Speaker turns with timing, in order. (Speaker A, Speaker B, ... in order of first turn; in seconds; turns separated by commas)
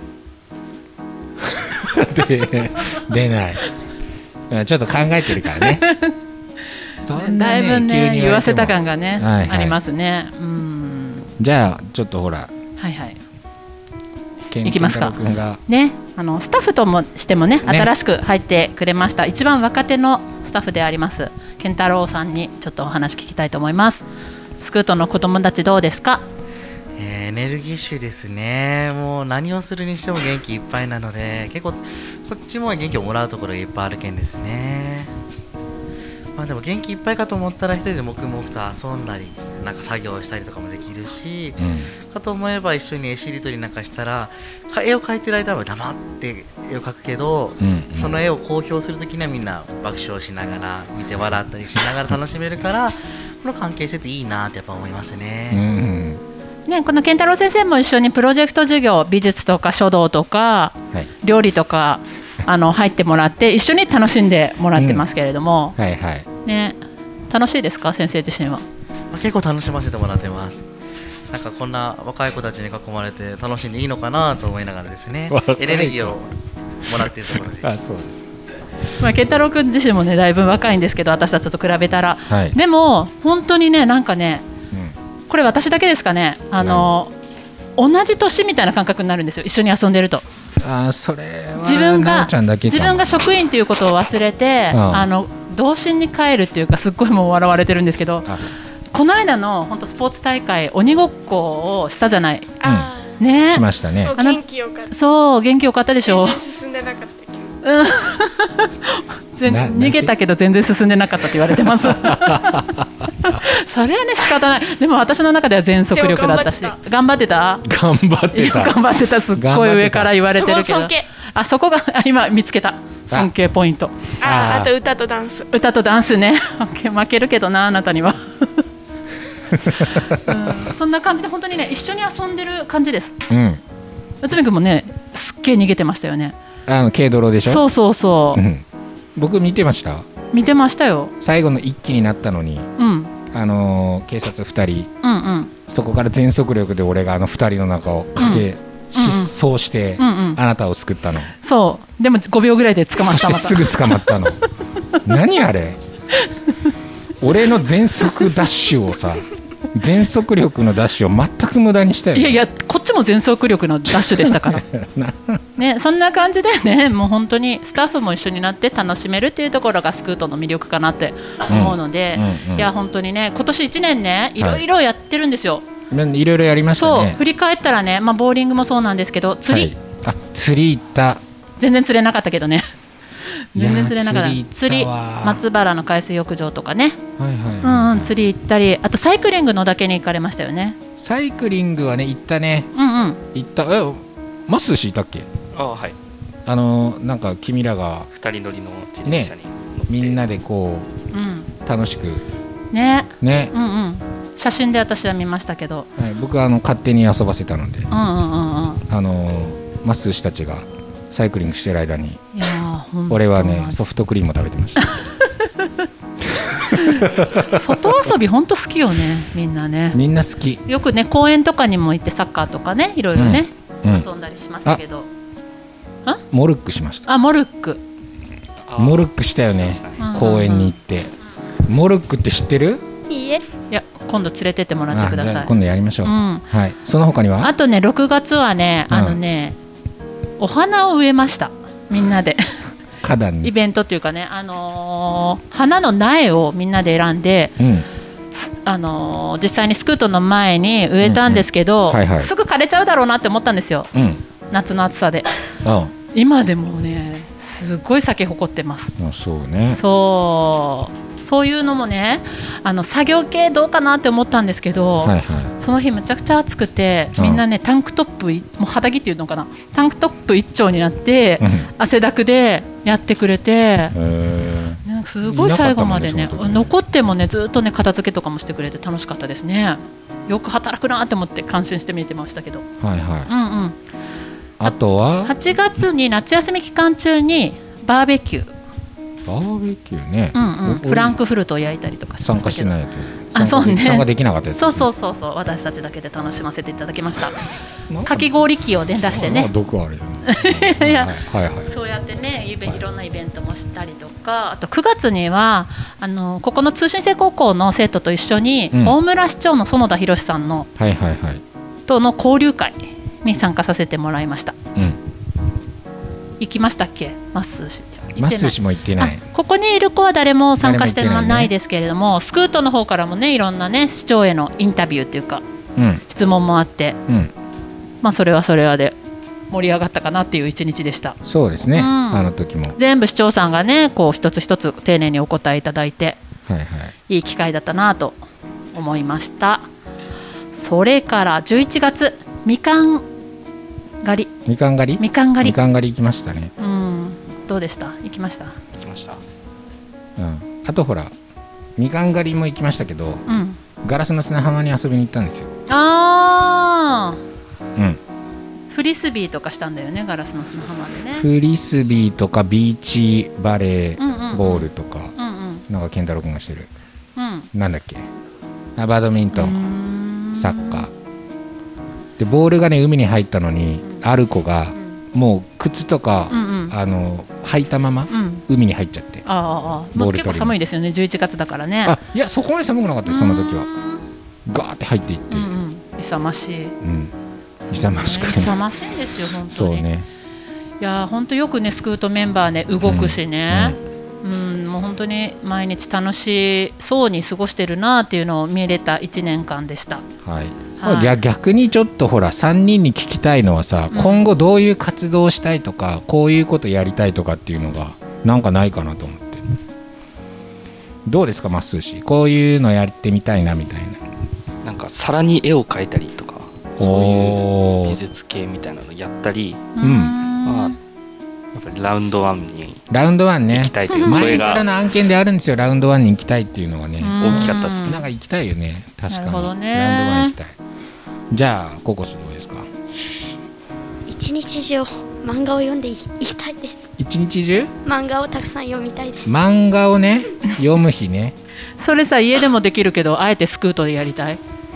Speaker A: 1.4-3.7, Speaker A: 4.5-5.9, Speaker B: 5.6-6.2, Speaker A: 7.0-9.8, Speaker B: 7.1-11.3, Speaker A: 11.4-12.5, Speaker B: 12.8-13.2, Speaker A: 14.5-15.6, Speaker B: 14.6-24.1, Speaker A: 17.6-17.9, Speaker B: 24.6-26.2, Speaker C: 27.0-35.1, Speaker C: 36.4-41.6, Speaker A: 41.6-41.9, Speaker C: 42.1-55.6, Speaker A: 47.6-48.2, Speaker A: 55.5-56.2, Speaker B: 56.7-65.8, Speaker A: 64.8-65.1, Speaker A: 65.8-66.3, Speaker B: 66.5-66.8, Speaker B: 67.3-68.7, Speaker C: 69.1-70.7, Speaker C: 71.3-76.3, Speaker A: 75.3-76.2, Speaker C: 76.8-77.8, Speaker A: 76.9-78.3, Speaker B: 79.0-84.5, Speaker A: 82.3-82.6, Speaker B: 85.3-87.1, Speaker A: 86.6-86.9, Speaker B: 87.8-90.2, Speaker A: 90.6-93.2, Speaker B: 91.6-98.3, Speaker A: 94.7-95.1, Speaker A: 98.2-98.5, Speaker B: 98.9-102.6, Speaker D: 102.6-103.2, Speaker A: 102.6-102.9, Speaker B: 103.2-103.6, Speaker A: 103.5-104.2, Speaker D: 104.0-104.9, Speaker B: 104.2-106.4, Speaker D: 106.0-107.5, Speaker B: 107.6-117.7, Speaker A: 109.5-110.1, Speaker A: 111.7-113.1, Speaker D: 115.9-116.8, Speaker A: 117.7-118.8, Speaker B: 118.3-124.0, Speaker A: 119.3-120.2, Speaker D: 120.3-121.1, Speaker A: 124.2-124.7, Speaker D: 124.2-125.5, Speaker B: 125.5-128.6, Speaker A: 129.5-130.5, Speaker B: 129.8-133.2, Speaker A: 133.3-133.6, Speaker B: 134.2-136.4, Speaker A: 136.7-137.7, Speaker B: 137.4-138.4, Speaker A: 138.3-140.1, Speaker B: 140.3-141.1, Speaker A: 141.2-142.7, Speaker B: 142.8-143.1, Speaker A: 143.3-144.9, Speaker B: 145.0-145.5, Speaker A: 145.7-151.3, Speaker B: 148.2-149.3, Speaker B: 150.0-150.4, Speaker B: 151.4-154.3, Speaker A: 153.0-154.4, Speaker A: 155.1-155.8, Speaker A: 157.2-162.4, Speaker B: 162.1-164.7, Speaker A: 163.9-165.4, Speaker B: 165.6-175.7, Speaker A: 171.5-172.7, Speaker A: 175.9-177.2, Speaker B: 176.8-179.7, Speaker A: 179.5-181.2, Speaker B: 181.6-182.7, Speaker B: 183.3-187.0, Speaker A: 183.6-185.4, Speaker A: 187.2-188.2, Speaker B: 187.6-190.8, Speaker A: 191.0-192.7, Speaker B: 192.8-193.2, Speaker A: 193.3-195.3, Speaker E: 195.5-196.0, Speaker A: 196.5-198.1, Speaker E: 198.1-200.2, Speaker A: 199.1-199.3, Speaker A: 199.9-200.9, Speaker B: 201.1-201.5, Speaker A: 201.7-202.2, Speaker B: 202.7-205.9, Speaker A: 203.2-203.5, Speaker A: 206.0-207.9, Speaker B: 207.9-208.8, Speaker A: 208.9-212.2, Speaker B: 212.3-213.8, Speaker A: 213.1-214.9, Speaker A: 216.3-217.8, Speaker B: 216.8-220.0, Speaker A: 219.9-220.6, Speaker B: 220.7-225.1, Speaker A: 223.2-224.1, Speaker A: 226.3-227.1, Speaker B: 227.1-227.8, Speaker E: 228.7-230.1, Speaker A: 228.8-231.1, Speaker B: 230.0-230.8, Speaker A: 231.7-232.8, Speaker F: 233.1-233.4, Speaker B: 233.7-235.5, Speaker A: 234.9-237.5, Speaker B: 236.0-236.4, Speaker B: 237.4-239.6, Speaker A: 238.9-239.2, Speaker B: 240.4-242.4, Speaker A: 243.0-243.5, Speaker B: 243.4-247.6, Speaker A: 247.6-247.9, Speaker B: 248.3-253.9, Speaker A: 251.0-252.3, Speaker A: 253.9-254.2, Speaker B: 254.5-255.3, Speaker A: 255.6-255.9, Speaker B: 256.1-258.9, Speaker A: 259.0-259.8, Speaker B: 259.7-274.0, Speaker A: 265.0-265.6, Speaker A: 267.2-267.4, Speaker A: 271.4-271.7, Speaker A: 273.9-276.7, Speaker B: 274.9-282.7, Speaker A: 282.8-283.3, Speaker B: 283.3-283.8, Speaker A: 284.6-285.3, Speaker B: 285.2-288.5, Speaker A: 289.3-291.2, Speaker B: 290.3-292.8, Speaker A: 292.2-294.9, Speaker B: 293.3-297.4, Speaker A: 297.9-298.4, Speaker B: 298.1-299.5, Speaker A: 299.0-301.7, Speaker B: 300.3-301.1, Speaker B: 301.7-310.7, Speaker A: 308.7-309.0, Speaker A: 310.8-311.4, Speaker B: 311.9-314.6, Speaker A: 314.8-315.0, Speaker B: 316.4-325.4, Speaker A: 318.2-319.2, Speaker A: 320.6-321.5, Speaker A: 325.8-326.0, Speaker B: 326.1-327.0, Speaker B: 328.0-329.0, Speaker B: 329.5-331.2, Speaker A: 331.2-332.8, Speaker B: 331.7-336.2, Speaker A: 336.5-336.9, Speaker B: 337.1-338.2, Speaker B: 338.7-339.7, Speaker B: 340.5-343.1, Speaker B: 344.0-344.3, Speaker A: 344.5-346.5, Speaker B: 345.0-345.6, Speaker B: 346.6-348.6, Speaker E: 348.8-349.2, Speaker A: 350.2-351.1, Speaker A: 351.8-353.2, Speaker B: 353.3-353.6, Speaker A: 353.8-355.5, Speaker B: 355.7-357.2, Speaker B: 358.7-361.3, Speaker A: 361.1-365.1, Speaker B: 364.0-365.6, Speaker A: 365.7-366.7, Speaker B: 367.2-367.5, Speaker A: 367.5-368.1, Speaker A: 368.8-369.7, Speaker B: 369.3-370.9, Speaker A: 370.4-370.9, Speaker A: 372.2-379.2, Speaker B: 376.3-376.8, Speaker B: 378.1-378.4, Speaker B: 379.2-382.0, Speaker A: 379.9-380.6, Speaker A: 381.8-383.7, Speaker B: 383.1-384.0, Speaker A: 384.5-385.6, Speaker B: 385.3-386.8, Speaker A: 386.8-387.1, Speaker B: 387.6-389.9, Speaker A: 387.7-388.6, Speaker A: 389.5-390.1, Speaker B: 390.8-400.0, Speaker A: 392.8-393.8, Speaker A: 400.2-409.4, Speaker B: 400.8-401.2, Speaker B: 403.9-404.3, Speaker A: 411.1-414.0, Speaker E: 414.6-419.7, Speaker A: 416.8-418.0, Speaker B: 419.8-420.8, Speaker A: 419.8-420.2, Speaker E: 420.4-420.8, Speaker E: 421.5-422.8, Speaker A: 422.9-430.6, Speaker E: 423.5-424.7, Speaker B: 423.9-424.2, Speaker B: 427.0-428.0, Speaker E: 427.2-428.0, Speaker B: 429.1-430.4, Speaker A: 431.3-432.7, Speaker F: 434.1-436.9, Speaker A: 437.0-437.7, Speaker F: 437.8-439.4, Speaker A: 439.3-441.4, Speaker B: 441.8-444.4